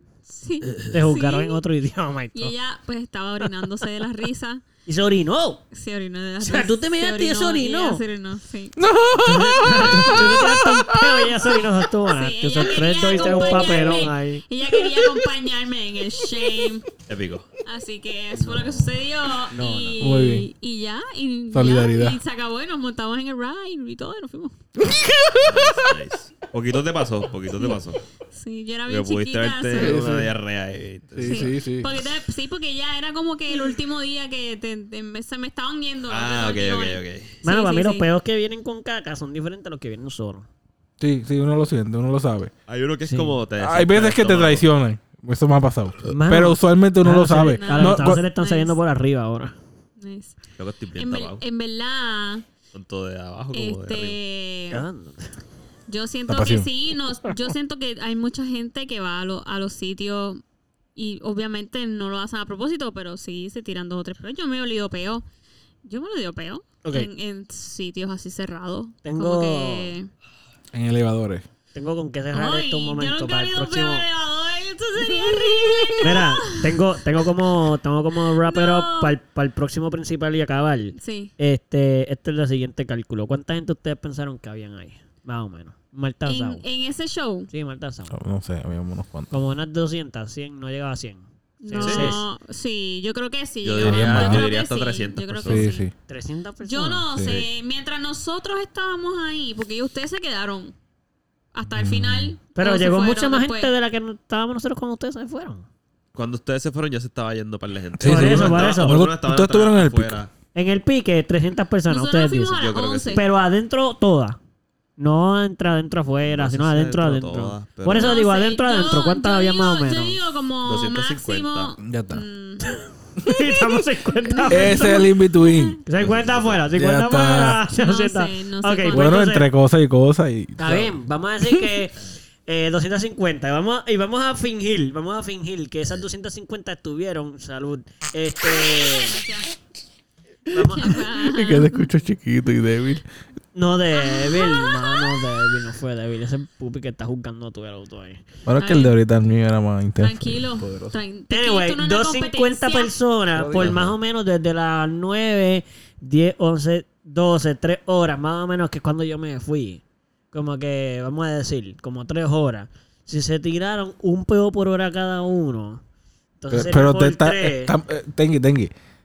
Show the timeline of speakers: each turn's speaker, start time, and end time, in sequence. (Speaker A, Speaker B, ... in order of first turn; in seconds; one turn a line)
Speaker A: 0.3-1.6
Speaker B: 0.8-2.5
Speaker A: 2.3-4.6
Speaker B: 4.9-5.6
Speaker A: 5.7-8.9
Speaker B: 6.4-8.0
Speaker C: 8.8-11.6
Speaker B: 9.2-14.4
Speaker A: 9.9-10.4
Speaker A: 12.0-16.9
Speaker C: 14.8-15.1
Speaker D: 17.1-17.5
Speaker A: 17.6-24.6
Speaker B: 18.4-18.8
Speaker B: 19.5-19.9
Speaker D: 19.5-19.9
Speaker C: 20.0-20.5
Speaker C: 21.5-22.2
Speaker C: 24.8-26.0
Speaker D: 25.4-28.0
Speaker A: 27.5-30.1
Speaker D: 28.9-31.5
Speaker C: 29.7-30.3
Speaker C: 31.1-31.9
Speaker A: 31.2-38.1
Speaker D: 36.1-37.4
Speaker B: 37.4-40.5
Speaker C: 41.0-42.5
Speaker D: 42.7-44.6
Speaker B: 43.1-43.4
Speaker C: 43.6-48.2
Speaker B: 46.1-49.5
Speaker A: 47.3-48.8
Speaker A: 50.0-50.4
Speaker D: 50.6-51.4
Speaker A: 51.0-52.5
Speaker D: 52.7-54.2
Speaker A: 53.5-54.9
Speaker B: 54.7-55.4
Speaker A: 55.9-60.4
Speaker C: 56.3-56.7
Speaker A: 60.9-65.2
Speaker A: 65.8-70.1
Speaker B: 66.8-67.1
Speaker B: 69.0-69.9
Speaker C: 70.7-71.4
Speaker B: 71.7-74.1
Speaker A: 72.3-76.8
Speaker B: 75.4-86.6
Speaker A: 78.4-79.2
Speaker A: 81.0-81.3
Speaker A: 86.2-87.5
Speaker B: 87.5-88.2
Speaker C: 88.1-89.3
Speaker B: 89.3-92.2
Speaker A: 91.6-95.9
Speaker D: 91.7-92.2
Speaker D: 93.6-95.7
Speaker C: 93.8-94.5
Speaker C: 95.4-95.9
Speaker B: 96.1-97.1
Speaker A: 96.6-100.8
Speaker C: 97.1-97.4
Speaker D: 97.2-97.5
Speaker A: 101.5-103.7
Speaker C: 101.8-102.4
Speaker B: 102.6-105.7
Speaker D: 106.1-110.3
Speaker C: 108.0-110.2
Speaker B: 108.0-109.0
Speaker B: 110.5-112.6
Speaker A: 111.9-113.3
Speaker D: 112.6-113.2
Speaker B: 113.1-114.4
Speaker B: 115.0-120.2
Speaker D: 116.2-118.2
Speaker A: 117.9-122.8
Speaker D: 120.6-121.8
Speaker C: 121.8-122.2
Speaker B: 122.7-125.1
Speaker C: 123.2-123.5
Speaker A: 124.2-125.8
Speaker C: 124.5-125.8
Speaker B: 125.8-129.5
Speaker D: 126.0-126.7
Speaker C: 126.7-127.6
Speaker A: 127.7-129.2
Speaker C: 128.9-131.7
Speaker B: 130.6-139.2
Speaker A: 138.9-139.5
Speaker B: 140.5-141.0
Speaker A: 140.5-141.9
Speaker C: 140.8-143.1
Speaker B: 143.6-148.2
Speaker A: 143.9-145.2
Speaker C: 148.5-150.9
Speaker A: 148.6-148.9
Speaker A: 150.0-152.9
Speaker B: 151.3-165.8
Speaker C: 153.3-153.8
Speaker D: 153.6-153.9
Speaker B: 166.4-167.7
Speaker C: 166.5-168.7